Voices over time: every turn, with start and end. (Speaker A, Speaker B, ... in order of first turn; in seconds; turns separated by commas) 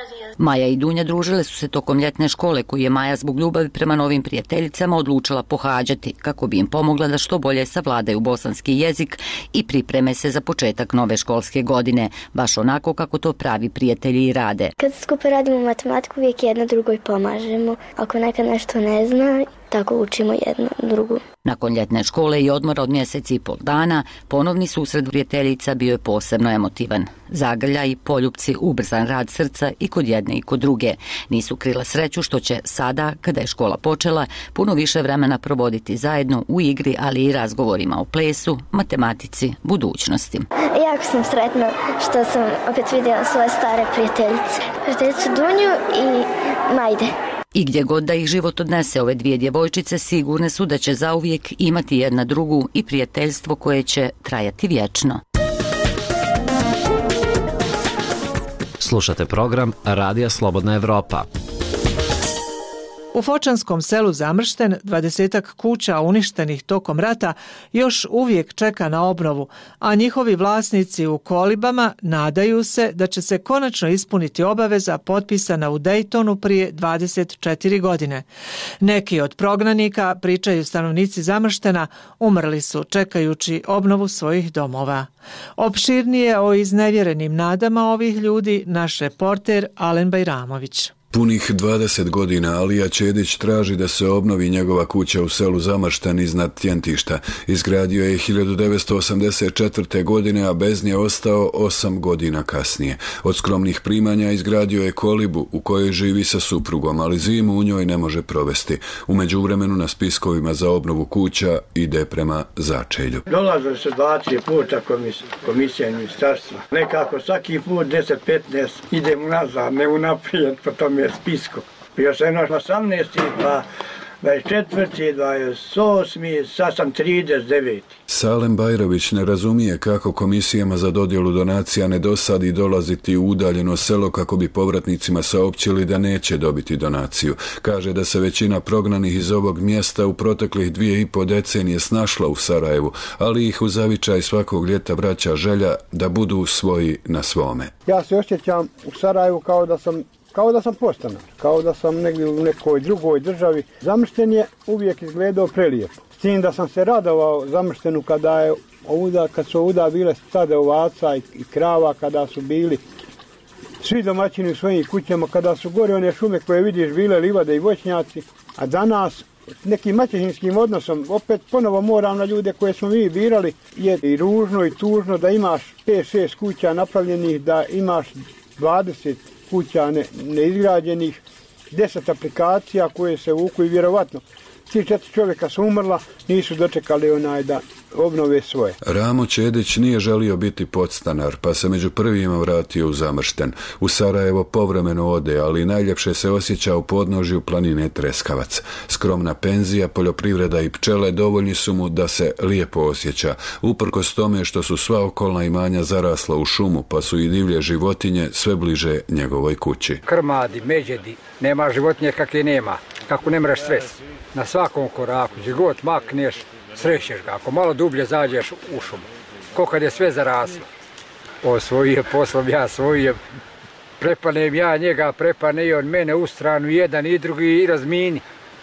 Speaker A: 0.4-14.7, Speaker B: 14.8-21.2, Speaker A: 21.4-40.5, Speaker B: 40.8-47.1, Speaker A: 47.5-55.2, Speaker C: 58.8-61.3, Speaker D: 63.1-78.2, Speaker D: 78.8-90.9, Speaker E: 91.1-113.2, Speaker F: 113.3-123.6, Speaker F: 124.2-127.9, Speaker E: 128.1-147.7, Speaker G: 147.9-162.8, Speaker G: 163.8-181.2, Speaker G: 181.7-188.7, Speaker E: 188.8-210.0, Speaker H: 210.0-220.6, Speaker H: 221.4-223.2, Speaker H: 224.0-228.2